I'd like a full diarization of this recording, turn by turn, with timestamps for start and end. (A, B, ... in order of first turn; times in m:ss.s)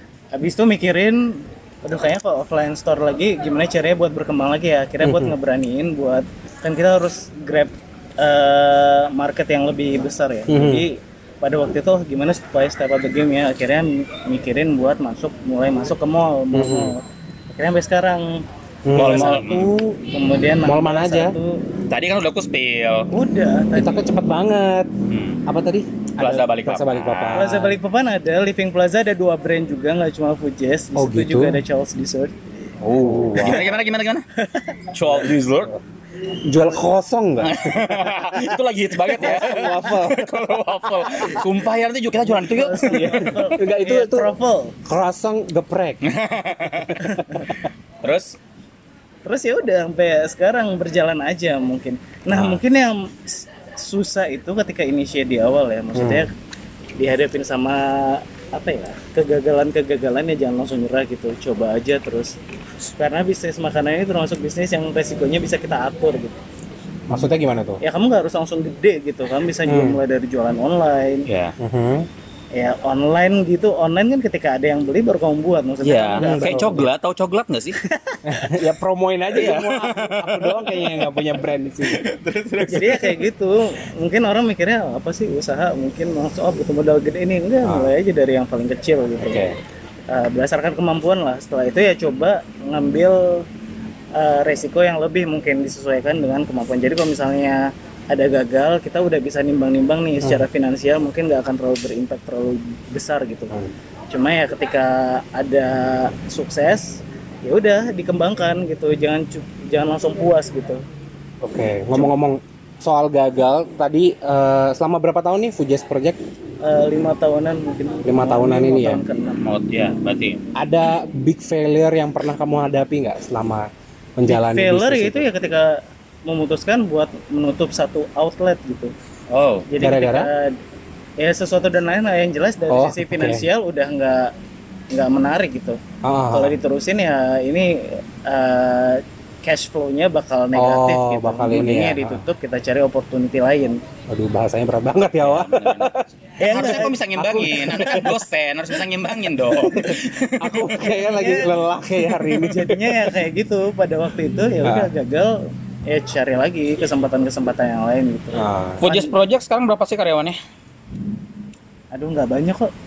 0:00.3-0:18.4 A
0:05.0-0:05.3 B
0:10.5-0:10.8 B
0:16.5-0:16.9 B
0:18.8-0:19.4 B
0:18.9-0:21.6 A
0:19.0-0:19.7 C
0:20.6-0:21.4 B
0:21.9-0:23.1 C
0:23.1-0:24.1 A
0:23.7-0:24.9 B
0:25.1-0:25.4 C
0:25.5-0:27.8 B
0:26.2-0:27.5 C
0:27.3-0:32.3 A
0:31.0-0:31.6 B
0:32.8-0:34.2 C
0:33.0-0:33.7 B
0:34.4-0:34.8 A
0:34.9-0:35.7 C
0:36.4-0:38.6 B
0:37.4-0:43.4 C
0:39.1-0:41.4 B
0:39.2-0:39.9 A
0:42.2-0:44.8 A
0:42.9-0:44.3 B
0:44.8-0:46.0 B
0:46.0-0:48.4 C
0:46.7-0:47.5 B
0:47.0-0:47.5 A
0:49.2-0:56.3 A
0:52.3-0:52.6 C
0:55.9-0:56.2 B
0:57.0-1:02.3 A
1:03.0-1:06.4 A
1:07.1-1:07.8 B
1:07.8-1:11.3 A
1:09.6-1:10.0 B
1:11.3-1:11.5 C
1:11.6-1:12.1 B
1:12.5-1:16.8 A
1:15.8-1:17.8 C
1:16.1-1:16.9 B
1:17.8-1:18.6 A
1:18.2-1:22.0 B
1:19.3-1:23.2 C
1:22.6-1:29.4 A
1:27.6-1:27.9 B
1:29.2-1:29.5 B
1:30.1-1:33.4 A
1:34.1-1:43.5 A
1:40.2-1:40.4 B
1:44.1-1:50.8 A
1:51.4-1:56.2 B
1:56.6-1:59.4 A
1:58.0-1:59.0 B
1:59.4-2:00.4 C
2:00.6-2:05.3 B
2:04.2-2:08.9 A
2:09.3-2:09.6 C
2:09.7-2:10.5 A
2:09.8-2:10.3 B
2:11.2-2:14.3 A
2:12.7-2:13.4 B
2:14.9-2:15.8 A
2:16.0-2:16.6 B
2:16.3-2:23.8 A
2:20.5-2:22.2 B
2:24.1-2:28.2 B
2:25.2-2:30.6 C
2:26.4-2:27.0 A
2:29.2-2:33.2 B
2:30.8-2:39.1 A
2:34.6-2:34.9 B
2:38.3-2:38.8 B
2:38.8-2:40.4 C
2:41.9-2:42.7 A